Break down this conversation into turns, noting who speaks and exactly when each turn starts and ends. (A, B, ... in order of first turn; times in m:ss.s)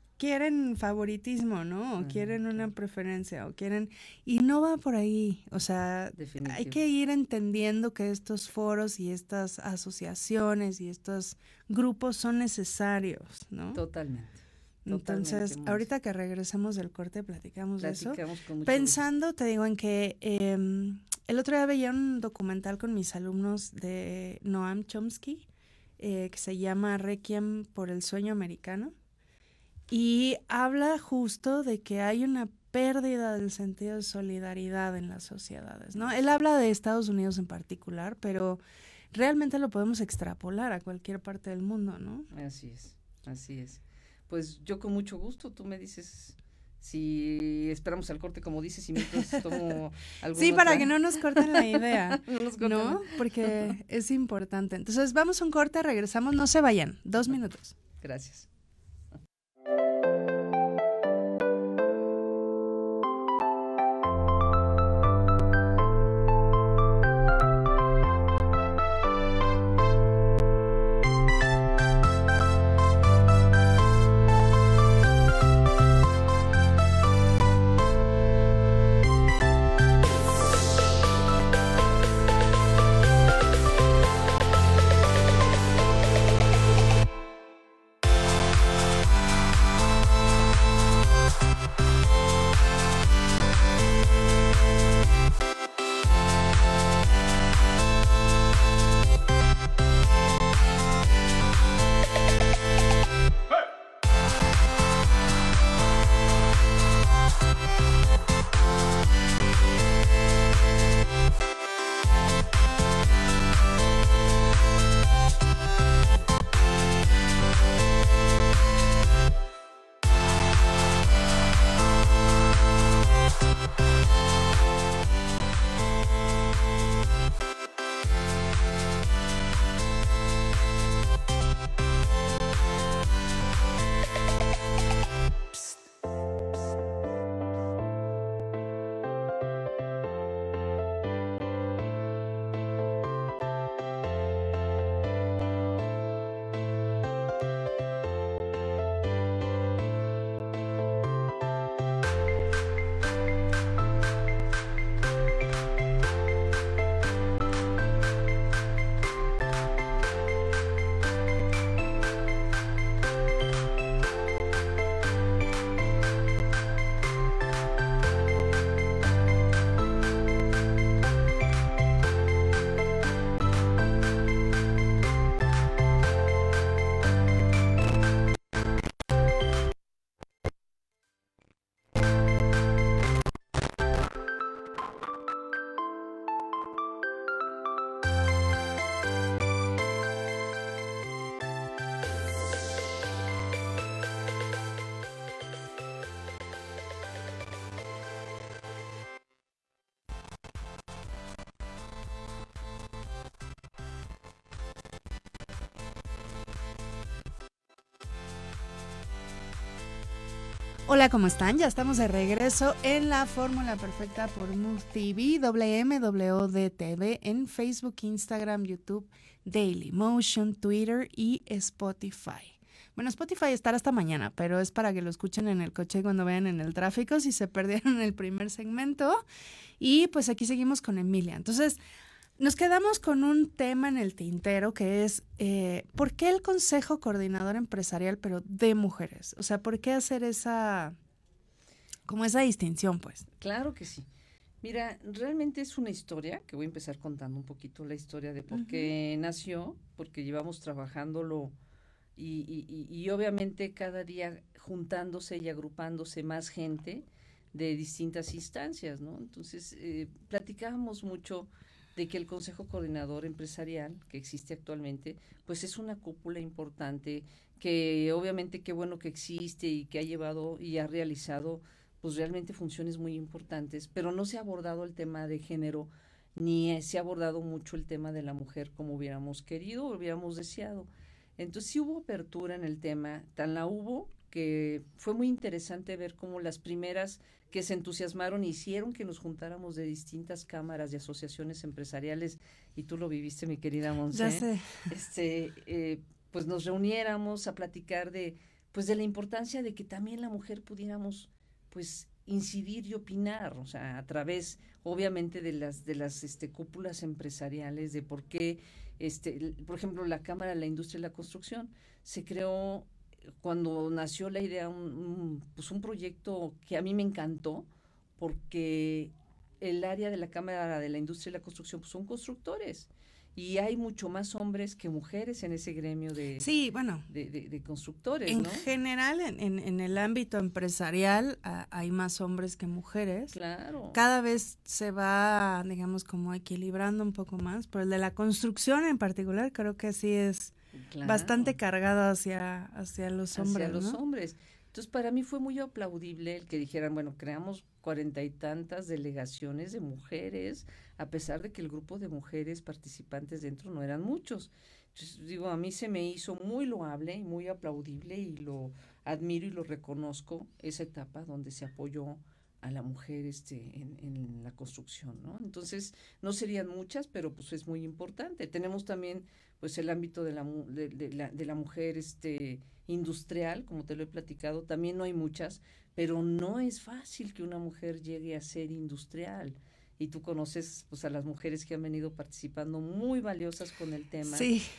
0:00.2-0:13.8 A
0:02.0-0:02.7 B
0:06.2-0:06.8 B
0:13.7-0:15.9 B
0:14.8-0:25.5 A
0:17.8-0:19.0 B
0:26.0-0:28.9 A
0:29.9-0:38.6 A
0:39.1-0:42.3 A
0:42.3-0:53.7 B
0:49.1-0:49.6 A
0:50.3-0:57.8 A
0:58.0-0:58.5 B
3:30.9-3:49.2 A
3:49.8-3:51.8 A
3:52.4-4:01.0 A
4:02.0-4:03.2 A
4:03.4-4:04.1 B
4:04.6-4:11.5 B
4:08.5-4:08.9 A
4:12.2-4:17.0 B
4:17.5-5:12.9 B
4:54.1-4:54.8 A
5:13.4-5:17.7 B
5:18.2-5:26.5 B
5:26.4-5:27.1 A
5:27.1-5:28.7 B
5:28.3-5:33.3 A
5:33.3-5:34.0 B
5:33.9-5:44.0 A
5:40.8-5:41.6 B
5:43.3-6:24.5 B
6:24.2-6:24.7 A